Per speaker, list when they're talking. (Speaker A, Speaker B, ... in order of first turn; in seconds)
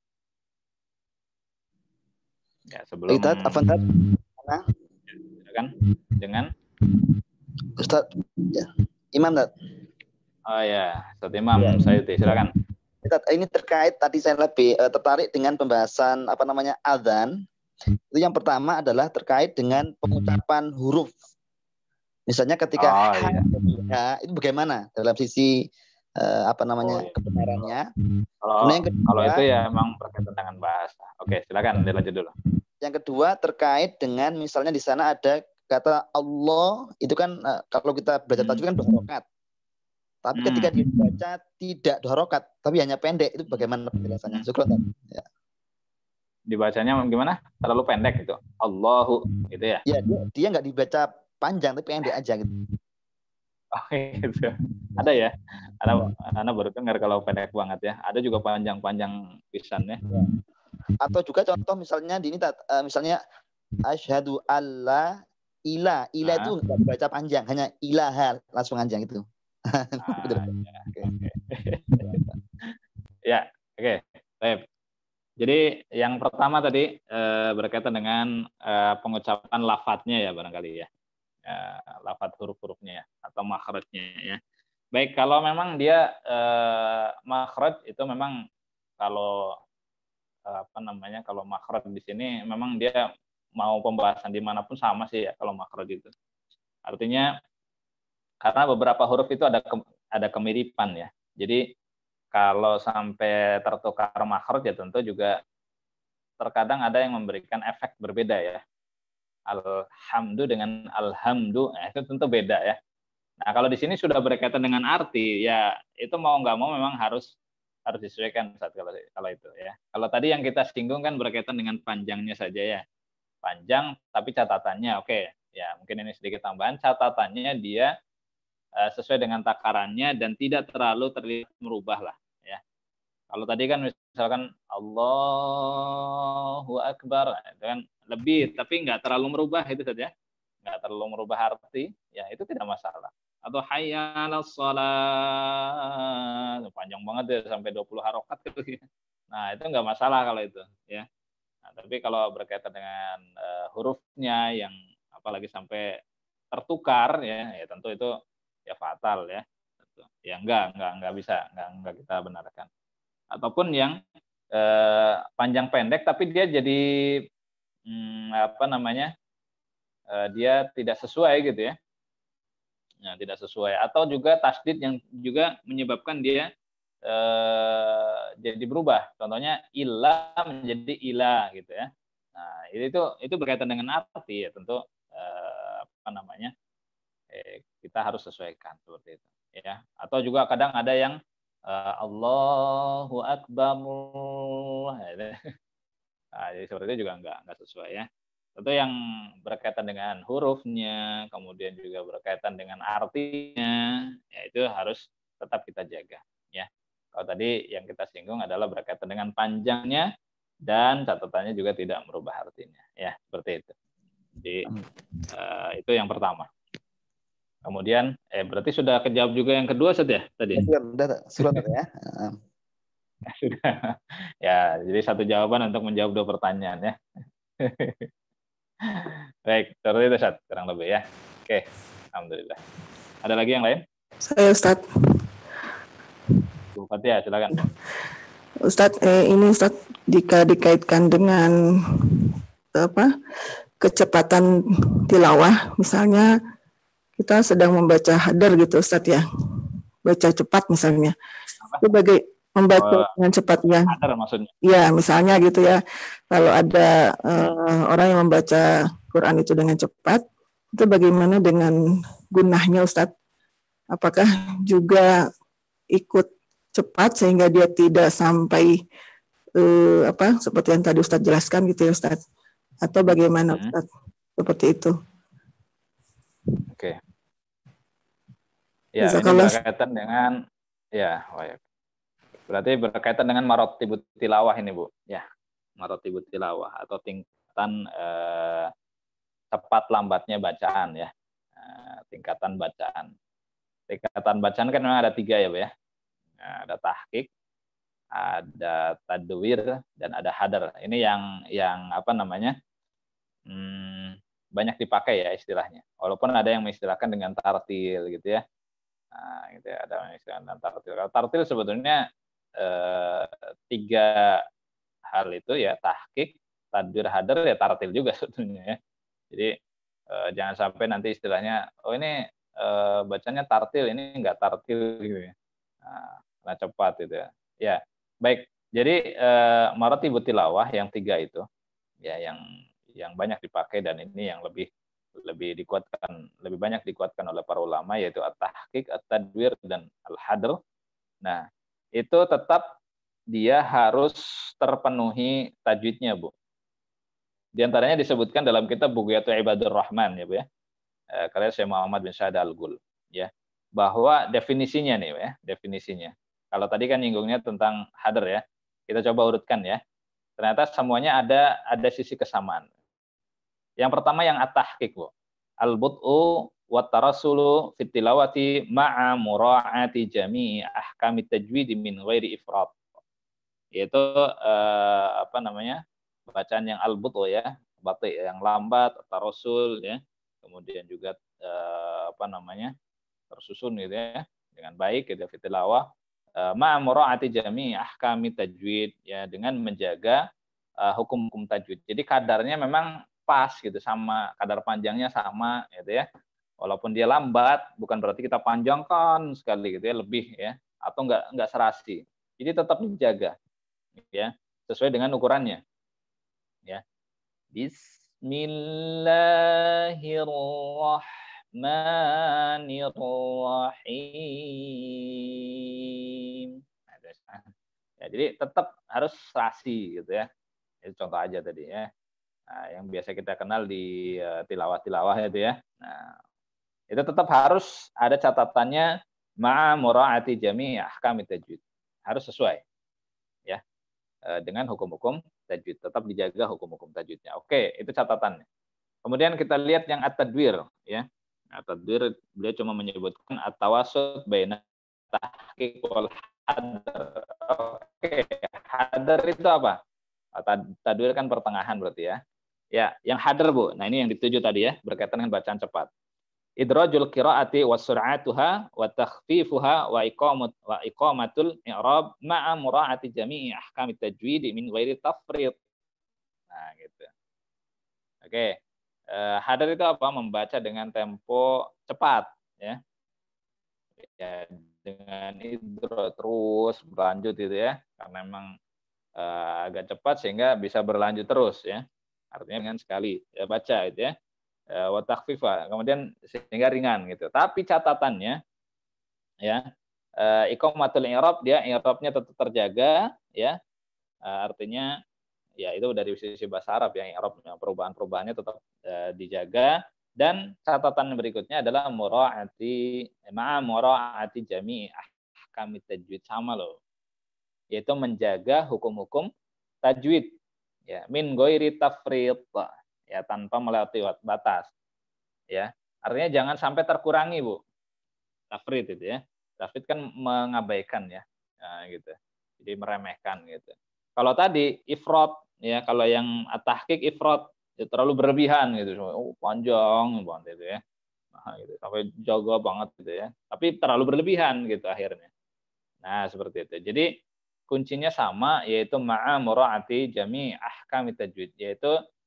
Speaker A: 2.7-3.6, 5.4-6.5, 10.5-12.5, 22.8-23.5, 26.8-27.7, 28.4-32.3, 38.4-38.6, 40.4-40.8, 46.5-49.8, 53.8-60.0, 66.2-66.5, 70.0-72.2, 73.3-74.6, 75.4-80.9, 81.5-84.4, 85.0-88.3, 89.0-89.3, 90.5-93.0, 93.6-96.1, 96.9-97.3, 98.4-101.6, 102.3-105.3, 106.4-108.6, 109.5-112.8, 113.4-117.3, 117.9-122.8, 123.4-127.9, 128.8-132.6, 133.3-136.1, 136.7-140.1, 140.6-145.7, 146.7-148.8, 149.3-151.1, 151.7-155.9, 156.5-158.1, 158.7-159.4, 160.0-162.7, 163.3-163.9, 164.6-166.8, 167.9-169.1, 170.1-171.7, 173.1-176.5, 177.1-186.5, 187.3-191.2, 191.7-195.4, 196.4-198.1, 198.6-203.8, 204.3-210.1, 210.7-213.7, 215.3-216.5, 217.7-220.7, 223.3-227.0, 227.6-228.1, 228.9-231.6, 232.2-232.6, 233.2-233.8, 236.8-237.6, 252.8-253.1, 253.9-254.5, 273.5-273.7, 276.7-277.0, 279.0-280.3, 281.0-281.6, 282.5-285.2, 285.8-288.7, 289.5-293.1, 293.9-295.7, 296.4-297.3, 298.1-302.6, 303.5-308.4, 309.1-312.0, 312.6-314.4, 315.1-318.8, 320.1-325.3, 325.8-331.4, 332.0-332.4, 333.0-334.7, 335.2-340.6, 342.0-342.6, 343.3-346.3, 347.6-350.4, 351.2-359.8, 360.4-362.7, 363.8-365.1, 365.6-372.8, 373.8-375.8, 376.3-382.7, 383.3-385.9, 386.4-390.2, 390.8-396.0, 396.6-403.4, 404.0-405.6, 407.5-411.0, 411.6-414.9, 416.4-417.4, 418.0-420.3, 420.8-421.9, 422.5-426.1, 426.9-428.9, 429.4-432.6, 434.4-438.4, 439.1-444.6, 445.1-449.8, 450.4-452.2, 452.8-455.9, 456.6-465.6, 466.5-467.1, 468.2-468.6, 469.1-472.8, 474.0-478.5, 479.2-484.1, 484.8-488.4, 490.2-493.6, 494.3-494.9, 495.6-502.8, 503.3-506.8, 507.8-509.3, 509.8-510.3, 510.9-514.7, 515.5-517.6, 518.5-530.8, 531.4-535.3, 536.0-537.1, 537.7-541.9
Speaker B: 3.1-3.8, 4.4-4.7, 7.8-9.5, 11.6-12.4, 13.0-17.3, 18.1-21.1, 22.3-25.5, 26.2-27.9, 28.6-29.4, 32.8-39.2, 40.2-45.3, 49.9-52.5, 61.0-63.2, 63.9-65.0, 65.7-71.1, 72.0-72.3, 220.5-222.4
Speaker C: 234.3-234.8, 238.7-241.5, 242.7-243.1, 243.8-244.5, 245.1-246.3, 247.2-249.2, 250.1-251.1, 251.8-253.9, 254.7-255.8, 256.3-260.2, 260.7-261.7, 262.3-263.1, 263.9-265.1, 265.9-268.7, 269.6-272.2, 272.8-273.9, 274.4-274.9, 279.0-279.6